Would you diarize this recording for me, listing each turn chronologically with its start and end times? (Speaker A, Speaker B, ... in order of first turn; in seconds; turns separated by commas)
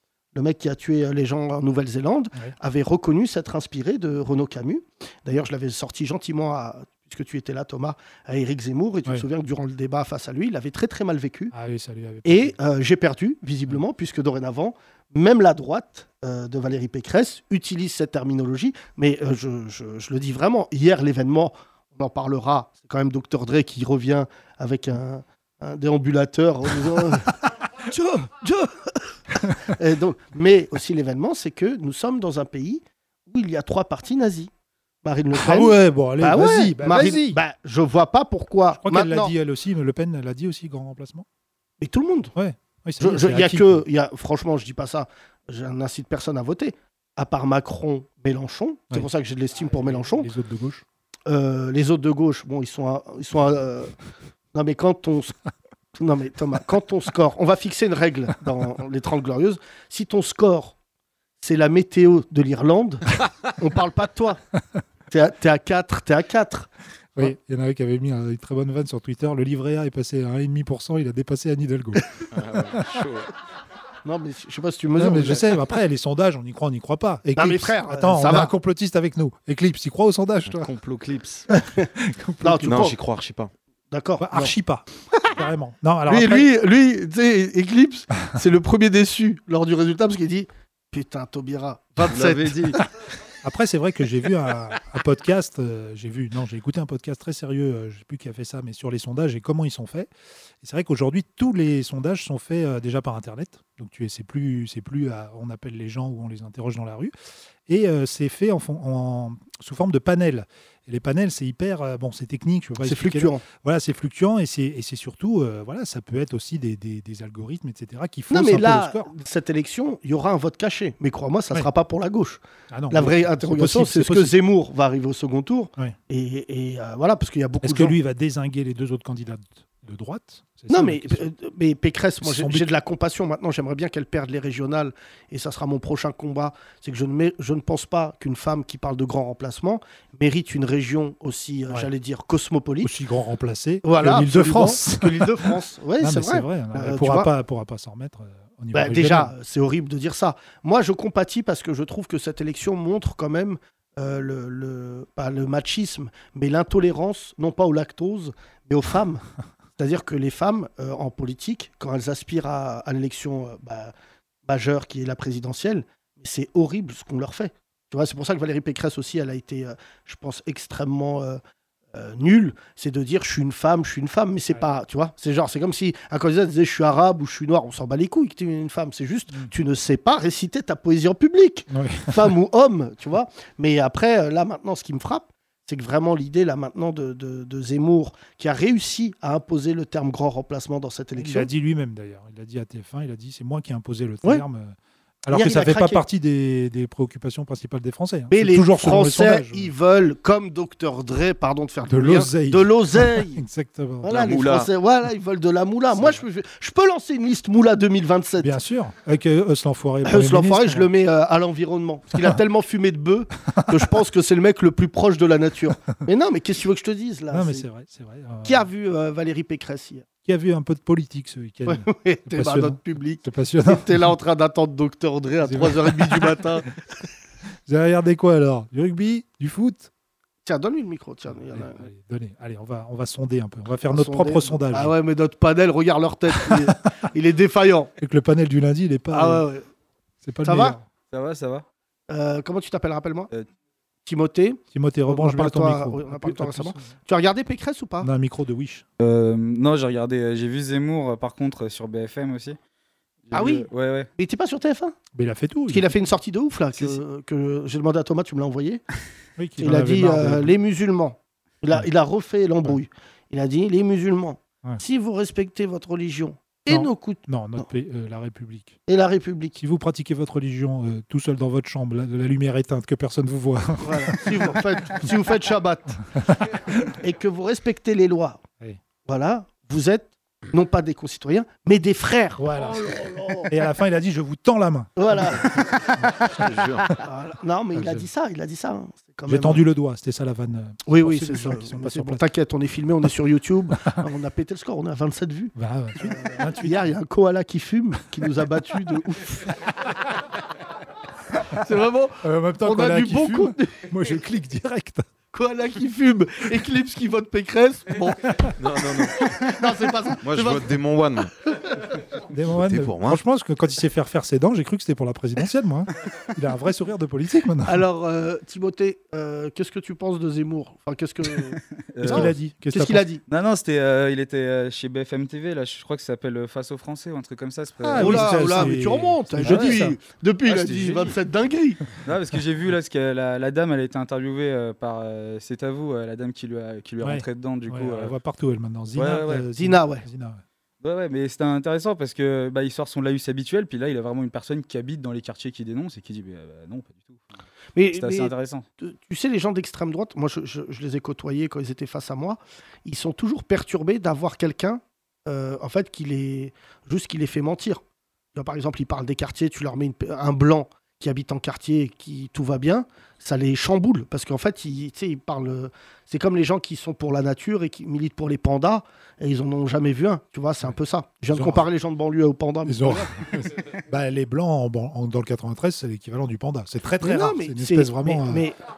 Speaker A: 0.3-11.5, Speaker B: 11.5-12.5, Speaker A: 12.2-34.5, Speaker A: 35.0-39.3, Speaker B: 35.3-37.4, Speaker B: 38.8-41.2, Speaker A: 41.8-42.3, Speaker B: 42.3-43.8, Speaker A: 43.0-50.3, Speaker B: 49.6-50.8, Speaker A: 51.3-53.9, Speaker A: 54.5-55.3, Speaker A: 55.9-60.7, Speaker A: 61.4-64.4, Speaker A: 65.1-67.3, Speaker B: 67.2-72.0, Speaker C: 72.3-73.3, Speaker B: 72.7-73.0, Speaker A: 74.0-75.5, Speaker B: 75.0-80.7, Speaker A: 77.4-78.5, Speaker C: 80.5-81.5, Speaker A: 81.6-81.9, Speaker B: 81.9-82.8, Speaker A: 82.4-82.9, Speaker C: 82.6-83.5, Speaker A: 83.9-84.5, Speaker B: 84.2-86.5, Speaker A: 86.1-92.8, Speaker C: 92.0-92.8, Speaker B: 93.4-100.1, Speaker B: 100.6-107.1, Speaker B: 107.7-119.1, Speaker A: 112.8-113.4, Speaker A: 118.3-128.0, Speaker B: 122.7-124.3, Speaker B: 127.6-131.2, Speaker A: 130.7-142.9, Speaker B: 132.2-132.7, Speaker B: 142.8-149.3, Speaker A: 143.8-147.3, Speaker A: 148.7-159.2, Speaker A: 159.8-163.9, Speaker A: 164.5-171.4, Speaker A: 171.9-191.5, Speaker B: 181.7-182.3, Speaker B: 191.2-199.7, Speaker A: 195.3-196.0, Speaker A: 198.3-203.4, Speaker B: 201.8-204.3, Speaker A: 204.0-208.5, Speaker C: 204.1-204.7, Speaker B: 205.9-206.2, Speaker B: 208.4-210.9, Speaker A: 210.0-217.7, Speaker B: 213.5-213.8, Speaker B: 217.3-218.7, Speaker A: 218.4-220.1, Speaker B: 220.2-224.1, Speaker A: 221.7-226.7, Speaker B: 225.4-226.4, Speaker B: 227.7-229.9, Speaker A: 230.4-231.9, Speaker B: 231.3-234.9, Speaker A: 233.9-237.9, Speaker B: 236.3-236.7, Speaker B: 238.0-239.4, Speaker A: 239.1-239.7, Speaker B: 240.2-240.8, Speaker A: 240.4-240.8, Speaker D: 241.1-241.6, Speaker A: 242.1-243.3, Speaker A: 244.1-248.1, Speaker B: 244.7-246.9, Speaker B: 248.0-248.8, Speaker D: 249.0-252.6, Speaker D: 253.3-254.1, Speaker A: 253.3-254.9, Speaker B: 255.1-255.9, Speaker A: 255.7-258.8, Speaker B: 259.4-260.5, Speaker A: 259.6-267.6, Speaker B: 266.7-268.8, Speaker A: 268.9-269.6, Speaker B: 269.6-275.1, Speaker A: 273.8-276.0, Speaker B: 276.1-276.8, Speaker A: 276.9-278.4, Speaker A: 279.1-283.5, Speaker B: 282.4-282.9, Speaker B: 283.4-286.3, Speaker A: 285.0-286.4, Speaker C: 286.3-286.9, Speaker A: 286.9-289.6, Speaker B: 287.7-288.1, Speaker B: 289.3-292.2, Speaker A: 290.9-299.6, Speaker B: 295.6-296.9, Speaker A: 301.5-303.9, Speaker B: 302.2-305.1, Speaker A: 305.3-308.5, Speaker C: 308.6-309.5, Speaker A: 309.2-310.7, Speaker C: 310.2-311.3, Speaker B: 312.3-317.8, Speaker C: 312.5-313.2, Speaker A: 317.6-323.2, Speaker D: 321.9-322.3, Speaker B: 322.0-323.0, Speaker D: 323.3-328.7, Speaker B: 327.8-330.0, Speaker A: 328.0-331.8, Speaker D: 329.4-329.8, Speaker D: 330.5-331.1, Speaker D: 332.0-338.1, Speaker B: 337.0-340.4, Speaker D: 338.9-339.4, Speaker A: 339.5-340.0, Speaker D: 340.8-347.2, Speaker A: 347.8-357.8, Speaker D: 347.9-348.6, Speaker A: 358.3-373.2, Speaker B: 371.3-371.7, Speaker B: 372.6-378.4, Speaker A: 377.0-378.6